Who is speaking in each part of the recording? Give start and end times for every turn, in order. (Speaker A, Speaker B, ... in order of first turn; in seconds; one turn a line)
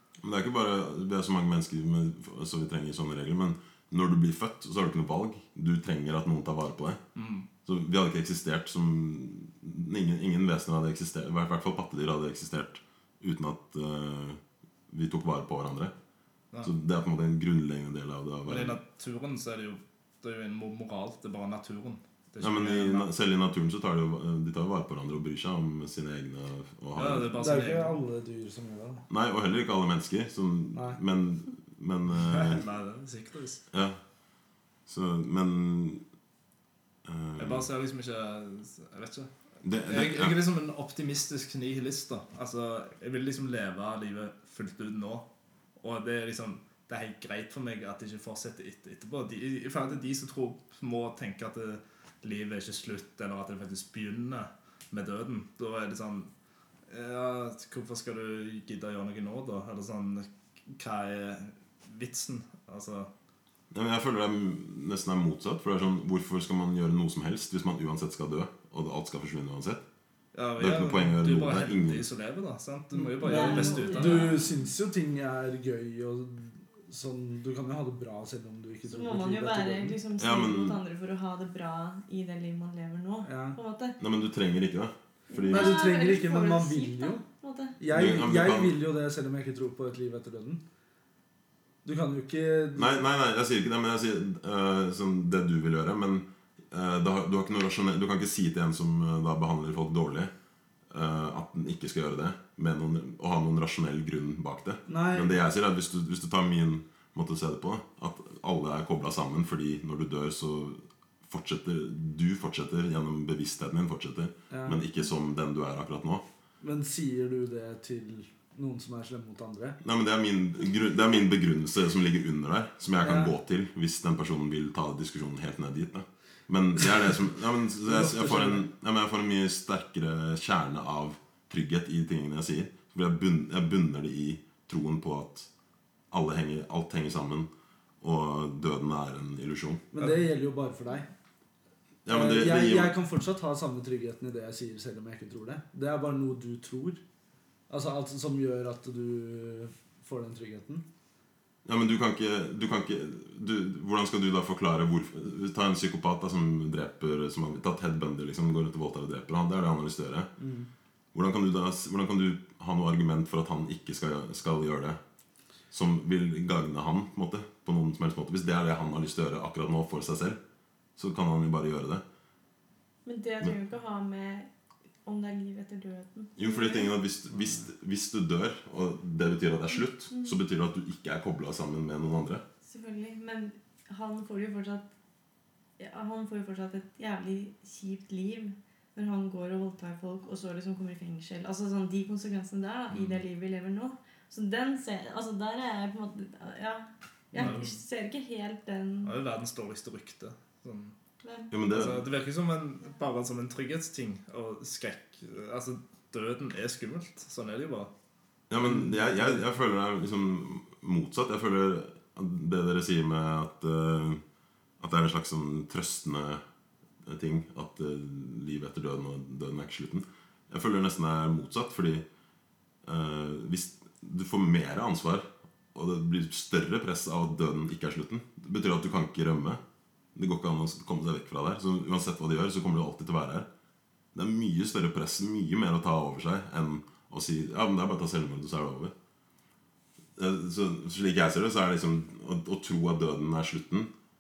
Speaker A: 0.2-7.0
Speaker B: 7.2-7.5
Speaker A: 7.7-15.9
Speaker A: 16.6-18.8
Speaker B: 18.5-23.1
Speaker A: 22.4-27.4
Speaker B: 27.0-28.0
Speaker C: 27.4-29.1
Speaker A: 29.1-32.6
Speaker C: 30.7-31.0
Speaker B: 32.2-33.6
Speaker A: 33.7-34.0
Speaker A: 34.9-36.0
Speaker A: 37.0-37.7
Speaker B: 37.4-39.3
Speaker A: 39.6-40.4
Speaker B: 39.8-45.3
Speaker B: 45.8-56.3
Speaker B: 56.9-63.1
Speaker A: 63.7-69.8
Speaker B: 70.3-74.3
Speaker A: 70.6-72.1
Speaker C: 72.9-80.0
Speaker D: 73.2-74.5
Speaker D: 78.9-84.0
Speaker A: 80.2-80.8
Speaker C: 83.2-83.6
Speaker A: 84.0-85.8
Speaker D: 85.3-87.8
Speaker C: 85.5-87.2
Speaker C: 87.8-90.6
Speaker A: 87.9-88.8
Speaker C: 91.8-93.0
Speaker A: 92.8-100.3
Speaker A: 100.9-116.2
Speaker C: 104.9-105.4
Speaker C: 114.5-114.8
Speaker C: 116.6-119.8
Speaker A: 119.8-135.5
Speaker C: 123.0-123.3
Speaker C: 127.8-128.7
Speaker A: 136.1-137.5
Speaker A: 138.0-139.9
Speaker C: 139.9-141.1
Speaker A: 142.1-142.9
Speaker C: 142.1-147.0
Speaker C: 147.7-150.8
Speaker A: 151.7-160.3
Speaker C: 160.4-160.7
Speaker A: 161.1-165.0
Speaker A: 165.7-170.4
Speaker A: 171.0-172.0
Speaker D: 173.1-174.5
Speaker D: 175.1-176.9
Speaker A: 176.4-182.4
Speaker D: 180.1-180.4
Speaker D: 182.6-184.9
Speaker D: 185.8-199.2
Speaker B: 192.9-193.2
Speaker B: 197.3-197.8
Speaker B: 199.1-200.9
Speaker D: 201.2-201.5
Speaker A: 201.5-202.1
Speaker B: 201.7-207.9
Speaker A: 208.5-214.2
Speaker C: 208.6-209.4
Speaker A: 214.8-216.4
Speaker A: 217.1-222.1
Speaker A: 222.8-229.6
Speaker A: 230.2-233.5
Speaker A: 234.1-238.9
Speaker A: 240.2-243.9